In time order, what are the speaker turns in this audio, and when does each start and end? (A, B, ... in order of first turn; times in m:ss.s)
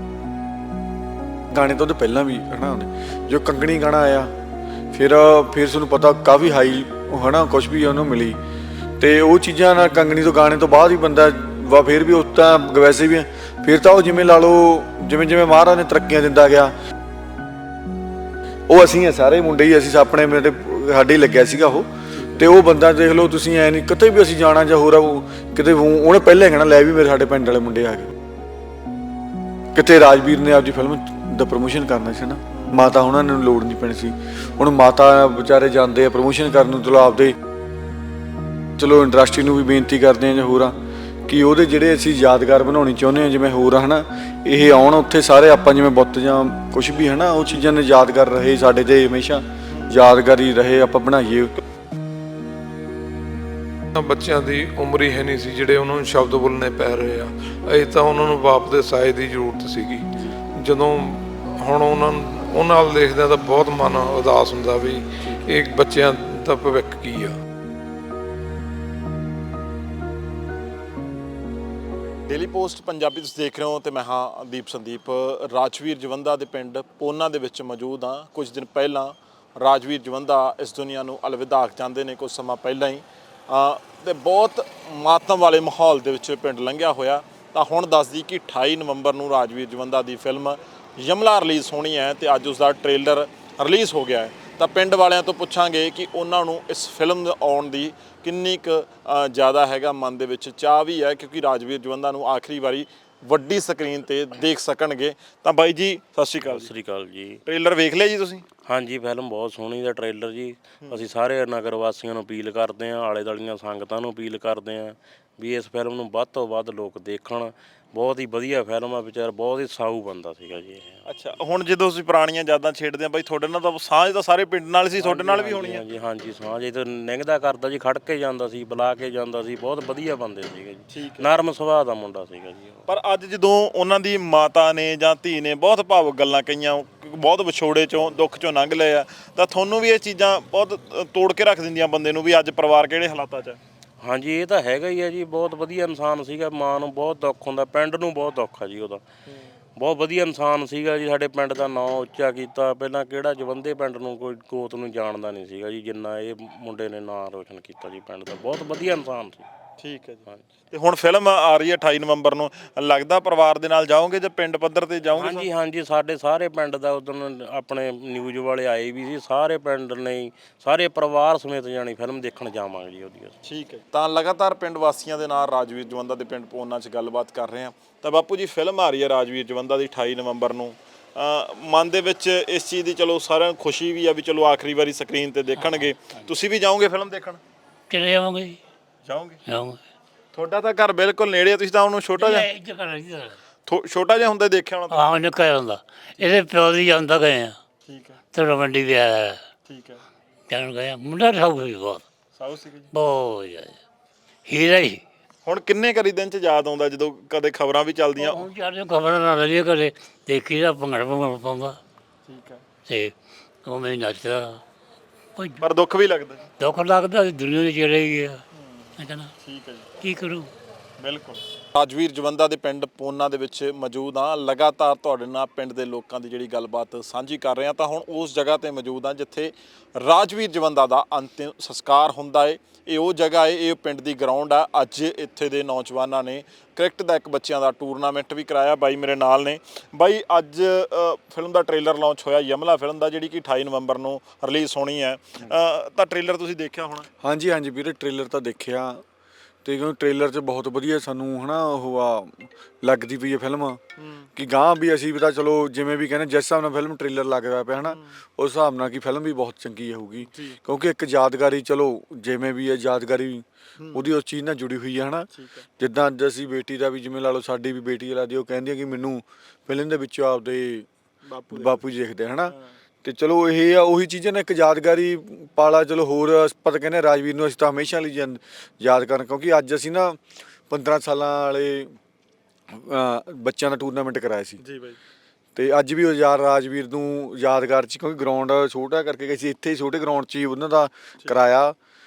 0:01.5-0:04.3 A
0:04.9-0:08.4 A
0:09.0-0:16.7 A
0:18.7-0:28.1 A
0:22.2-0:22.5 B
0:29.7-0:37.4 A
0:32.5-0:32.9 B
0:34.4-0:34.6 B
0:38.8-0:51.5 A
0:49.7-0:50.0 B
0:54.0-1:07.3 C
1:12.3-1:46.7 B
1:46.4-1:47.4 D
1:47.4-1:48.4 B
1:48.7-2:01.0 D
2:01.0-2:05.8 B
2:05.0-2:12.9 D
2:10.9-2:11.3 B
2:12.9-2:23.6 B
2:24.0-2:29.0 D
2:29.8-2:39.5 D
2:39.8-2:45.5 B
2:45.2-2:53.4 D
2:53.4-3:07.4 B
3:05.6-3:06.2 E
3:07.9-3:08.6 E
3:09.0-3:09.4 B
3:09.5-3:09.8 E
3:10.3-3:12.5 B
3:12.2-3:13.4 E
3:13.7-3:15.1 B
3:14.9-3:17.6 E
3:17.9-3:18.2 B
3:18.3-3:19.4 E
3:19.7-3:20.0 B
3:20.5-3:22.0 E
3:22.4-3:22.9 B
3:22.9-3:23.8 E
3:24.5-3:25.0 E
3:25.4-3:28.4 B
3:28.2-3:31.8 E
3:32.3-3:32.6 B
3:32.9-3:33.1 E
3:33.6-3:34.6 E
3:35.4-3:35.6 E
3:35.6-3:36.5 B
3:36.6-3:38.4 E
3:38.6-3:38.9 B
3:39.0-3:39.3 E
3:39.4-3:39.9 B
3:40.0-3:40.5 E
3:41.0-4:07.1 B
4:07.2-4:09.0 A
4:09.6-4:13.8 A
4:14.0-4:14.3 B
4:14.4-4:30.9 A
4:17.8-4:18.2 B
4:20.2-4:20.6 B
4:23.8-4:24.1 B
4:25.3-4:25.7 B
4:31.2-4:31.9 B
4:31.5-4:42.0 A
4:32.5-4:32.8 B
4:42.7-4:44.6 A
4:44.6-4:45.0 B
4:45.6-4:51.8 A